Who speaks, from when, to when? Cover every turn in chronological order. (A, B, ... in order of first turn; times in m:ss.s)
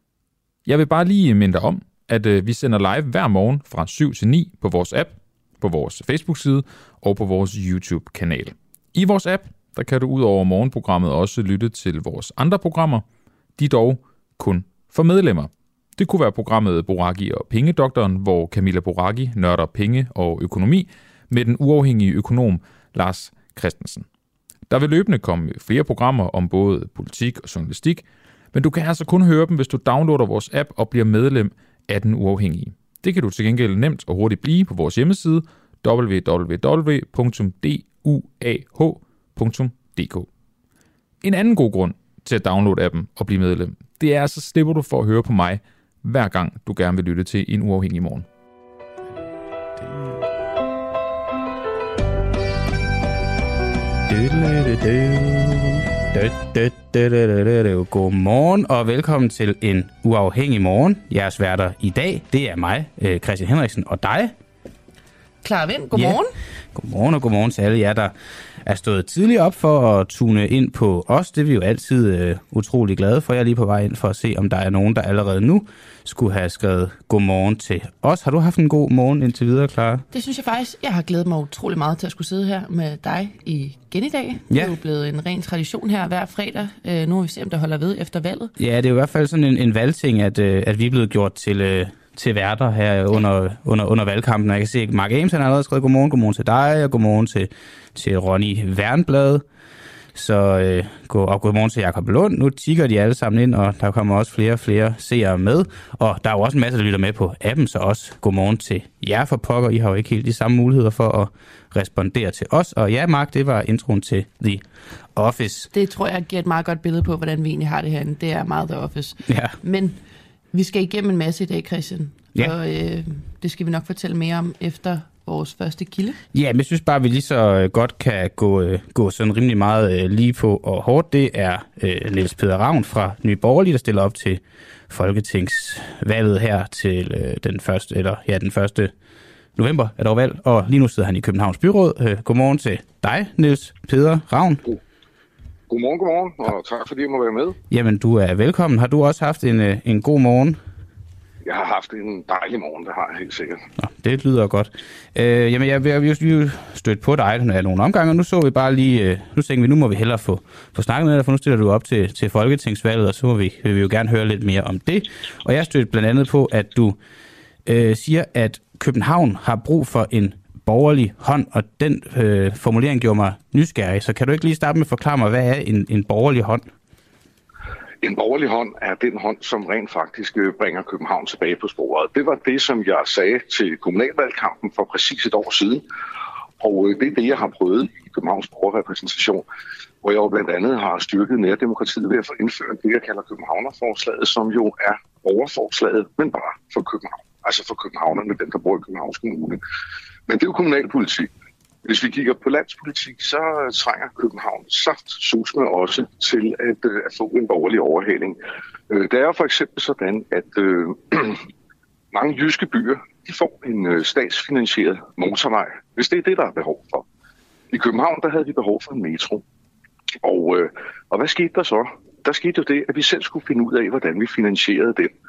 0:00.6-0:24.1 A
0:24.7-0:40.3 A
0:41.2-0:48.3 A
0:54.1-1:04.3 B
1:05.4-1:06.3 C
1:05.9-1:06.2 B
1:06.7-1:20.0 B
1:20.1-1:28.5 C
1:28.6-1:39.4 B
1:40.1-1:55.7 B
1:55.7-2:00.0 C
1:59.3-1:59.6 B
2:00.5-2:06.2 C
2:06.3-2:18.9 B
2:19.6-2:24.6 B
2:25.7-2:27.6 D
2:27.7-2:30.6 B
2:31.5-2:33.6 D
2:33.8-2:47.0 B
2:47.7-2:56.6 B
2:58.0-3:05.8 D
3:06.6-3:09.4 D
3:10.0-3:19.6 D
3:20.3-3:21.3 D
3:21.8-3:28.4 D
3:28.9-3:31.4 D
3:32.1-3:37.0 D
3:37.7-3:39.4 D
3:40.2-3:45.1 D